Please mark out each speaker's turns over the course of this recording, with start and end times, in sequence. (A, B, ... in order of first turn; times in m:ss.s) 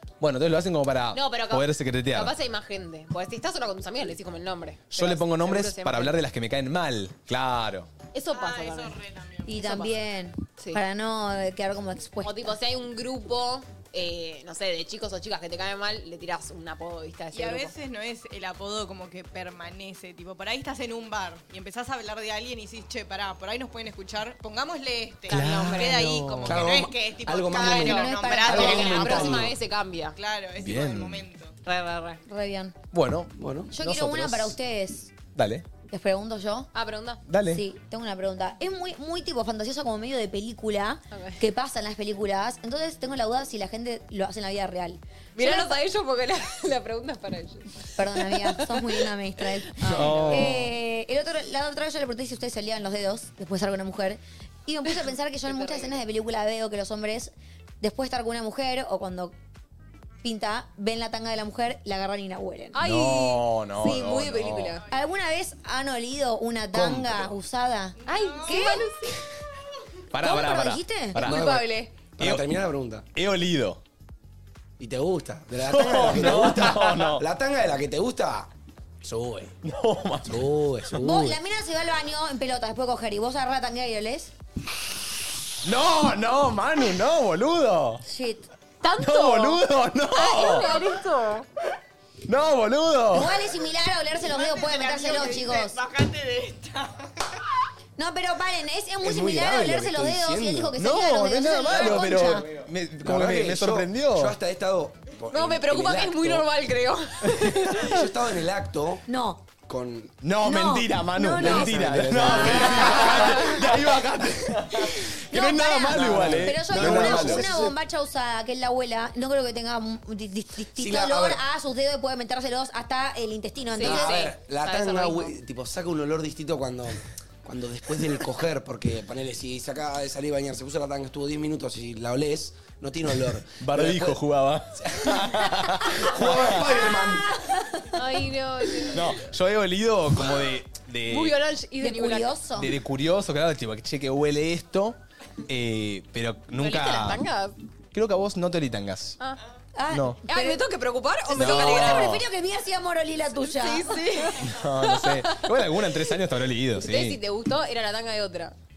0:00.2-0:02.3 A
0:01.1-0:06.2 B
0:04.9-0:07.9 A
0:08.1-0:09.0 B
0:08.3-0:09.5 C
0:09.4-0:12.6 D
0:09.5-0:10.0 B
0:12.2-0:17.7 B
0:17.3-0:29.4 C
0:25.3-0:26.0 B
0:25.3-0:26.7 A
0:26.4-0:29.5 E
0:27.6-0:29.3 D
0:28.5-0:30.2 B
0:30.1-0:31.5 C
0:30.6-0:31.2 A
0:31.6-0:32.2 B
0:32.3-0:32.7 D
0:32.9-0:34.6 A
0:33.4-0:33.7 E
0:33.7-0:35.1 D
0:35.3-0:35.6 A
0:35.9-0:36.7 D
0:36.7-0:37.2 B
0:37.3-0:37.6 A
0:37.4-0:45.8 D
0:41.1-0:41.4 B
0:45.4-0:50.5 B
0:48.0-0:59.3 D
0:49.9-0:50.6 A
0:55.4-0:56.0 B
1:00.2-1:02.8 D
1:02.7-1:04.8 B
1:02.8-1:04.8 A
1:04.9-1:08.9 D
1:06.7-1:07.3 E
1:08.0-1:08.8 C
1:08.0-1:09.2 B
1:10.1-1:11.5 A
1:10.2-1:11.2 D
1:11.2-1:11.9 B
1:11.2-1:13.1 E
1:12.2-1:12.6 A
1:13.1-1:13.8 A
1:14.8-1:18.5 E
1:15.6-1:17.2 A
1:19.0-1:19.6 E
1:19.6-1:20.6 A
1:20.2-1:21.4 E
1:21.0-1:24.3 D
1:25.6-1:28.0 A
1:28.0-1:28.4 D
1:28.8-1:31.4 B
1:29.0-1:30.8 A
1:32.2-1:33.4 A
1:33.1-1:35.8 D
1:34.2-1:37.0 C
1:38.0-1:42.5 D
1:39.0-1:40.7 E
1:40.8-1:44.4 A
1:43.0-1:46.5 E
1:45.3-1:47.9 B
1:47.2-1:47.7 A
1:47.7-1:49.0 E
1:49.1-1:49.4 D
1:49.6-1:50.1 E
1:50.2-1:57.5 A
1:50.4-1:53.7 D
1:51.4-1:53.4 E
1:52.8-1:53.3 B
1:54.8-2:04.3 D
1:55.9-1:57.8 E
2:00.8-2:01.4 E
2:03.7-2:05.3 B
2:03.8-2:14.2 E
2:13.2-2:16.8 A
2:14.8-2:15.2 E
2:15.9-2:17.3 E
2:16.6-2:18.0 D
2:17.9-2:19.2 B
2:18.9-2:21.4 A
2:21.1-2:22.4 B
2:21.8-2:22.7 D
2:22.6-2:27.2 A
2:26.6-2:27.6 B
2:27.9-2:29.2 A
2:29.7-2:30.6 D
2:29.9-2:30.2 A
2:30.3-2:32.2 B
2:31.3-2:34.2 D
2:31.3-2:32.2 A
2:33.4-2:35.6 B
2:34.4-2:37.2 A
2:36.8-2:38.5 B